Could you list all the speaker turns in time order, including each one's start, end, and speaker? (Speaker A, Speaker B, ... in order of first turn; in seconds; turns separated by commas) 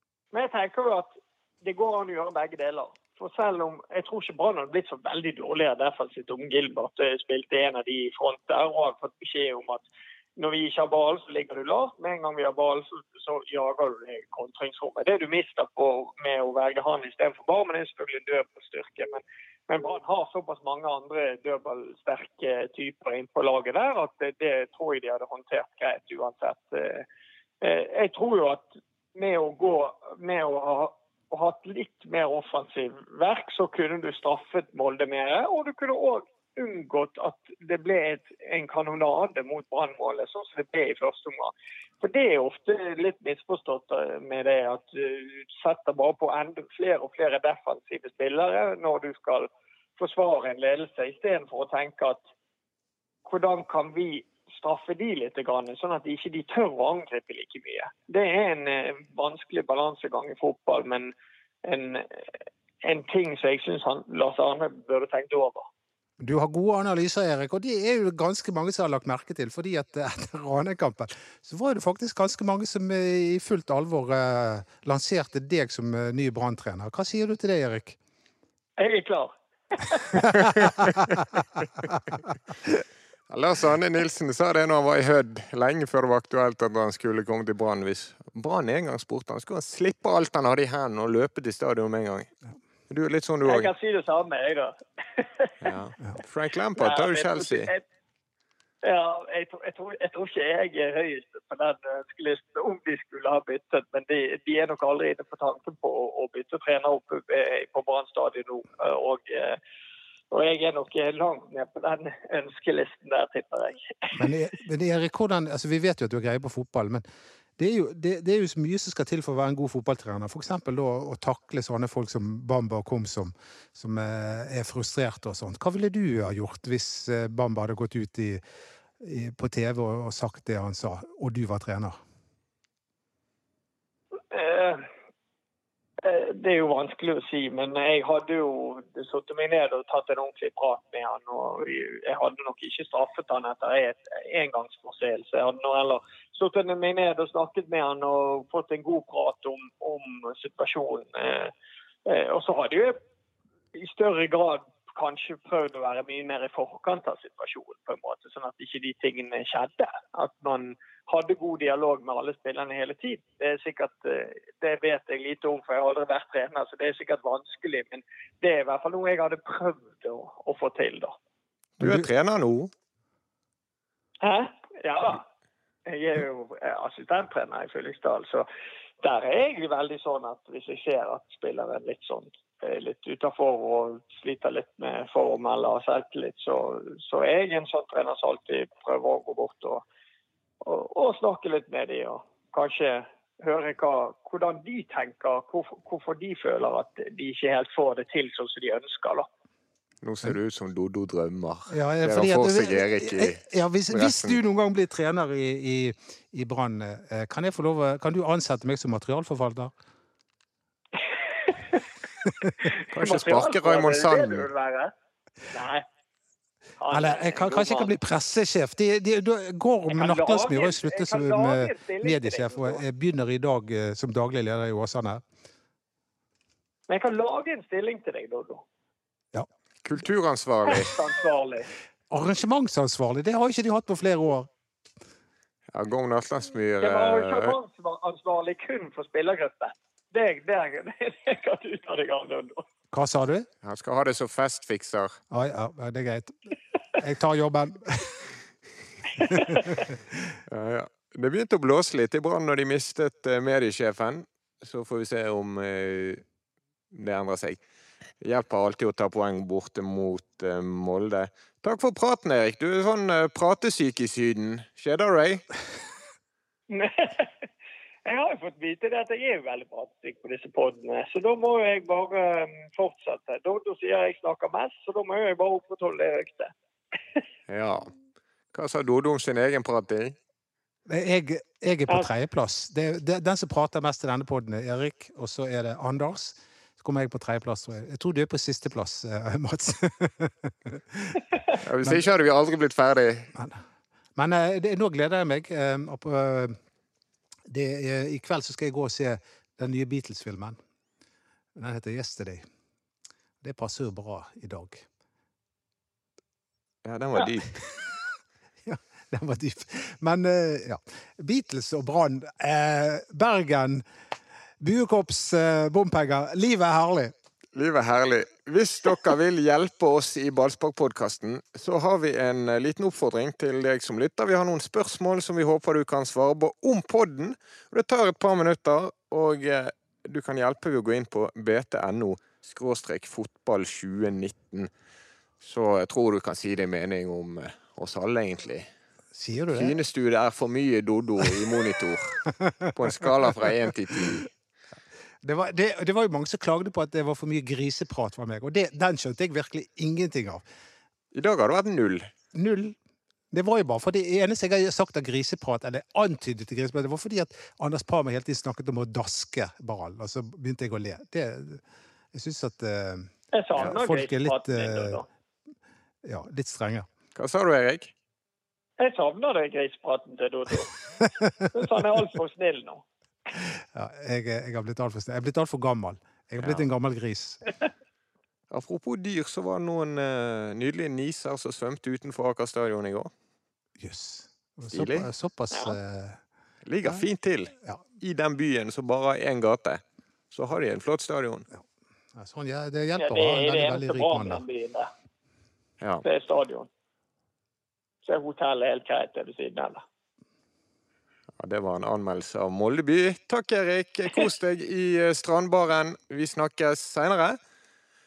Speaker A: 0.3-9.9, Speaker A: 10.4-27.1, Speaker A: 27.6-52.2, Speaker A: 53.3-61.1, Speaker A: 61.6-62.2, Speaker A: 62.8-65.7, Speaker B: 66.2-78.0, Speaker A: 78.8-80.2, Speaker B: 80.4-81.1, Speaker C: 80.6-81.0, Speaker C: 83.3-92.3, Speaker C: 92.9-93.7, Speaker A: 93.5-95.5, Speaker C: 95.6-97.7, Speaker A: 96.8-97.8, Speaker A: 98.8-109.6, Speaker A: 110.3-114.3, Speaker B: 114.1-117.0, Speaker B: 117.6-128.4, Speaker B: 129.0-132.0, Speaker A: 134.3-134.9, Speaker A: 136.0-151.5, Speaker A: 152.1-153.0, Speaker A: 153.7-171.2, Speaker C: 171.8-172.7, Speaker B: 171.8-172.1, Speaker A: 174.2-175.2, Speaker A: 175.9-178.5, Speaker A: 179.0-189.8, Speaker A: 190.6-199.3, Speaker C: 200.0-204.4, Speaker B: 201.7-209.7, Speaker A: 211.0-211.8, Speaker A: 212.6-214.9, Speaker C: 212.9-214.5, Speaker A: 215.5-215.9, Speaker A: 216.8-217.9, Speaker B: 216.9-225.2, Speaker A: 219.9-222.8, Speaker A: 226.9-228.6, Speaker C: 229.8-230.9, Speaker A: 230.7-231.7, Speaker B: 232.1-234.5, Speaker C: 235.7-237.6, Speaker A: 236.8-242.6, Speaker B: 242.9-243.5, Speaker C: 243.6-245.2, Speaker B: 245.3-246.3, Speaker B: 247.0-248.3, Speaker B: 249.3-250.3, Speaker C: 250.5-256.2, Speaker C: 256.9-257.6, Speaker C: 258.2-265.4, Speaker A: 266.7-267.5, Speaker A: 268.1-276.5, Speaker C: 277.5-277.9, Speaker C: 278.5-280.2, Speaker B: 280.9-292.0, Speaker C: 291.6-293.3, Speaker B: 293.4-293.6, Speaker B: 294.2-296.6, Speaker B: 297.5-300.6, Speaker B: 301.6-302.4, Speaker B: 303.4-304.9, Speaker C: 306.9-307.7, Speaker B: 308.6-313.9, Speaker B: 314.6-317.1, Speaker C: 317.6-334.7, Speaker C: 335.4-338.7, Speaker B: 339.1-339.8, Speaker C: 339.5-344.3, Speaker B: 345.2-350.4, Speaker C: 351.1-352.1, Speaker B: 352.3-352.8, Speaker B: 353.3-365.0, Speaker A: 363.3-365.1, Speaker B: 366.0-366.9, Speaker C: 367.1-367.9, Speaker A: 368.8-370.7, Speaker A: 371.5-372.8, Speaker B: 373.3-377.4, Speaker C: 376.4-376.7, Speaker C: 378.5-383.1, Speaker B: 383.8-386.2, Speaker C: 384.7-385.1, Speaker A: 385.5-385.8, Speaker C: 386.6-391.4, Speaker B: 392.1-394.4, Speaker A: 393.0-394.9, Speaker C: 395.8-396.1, Speaker A: 396.0-396.7, Speaker A: 398.1-399.8, Speaker C: 401.4-407.4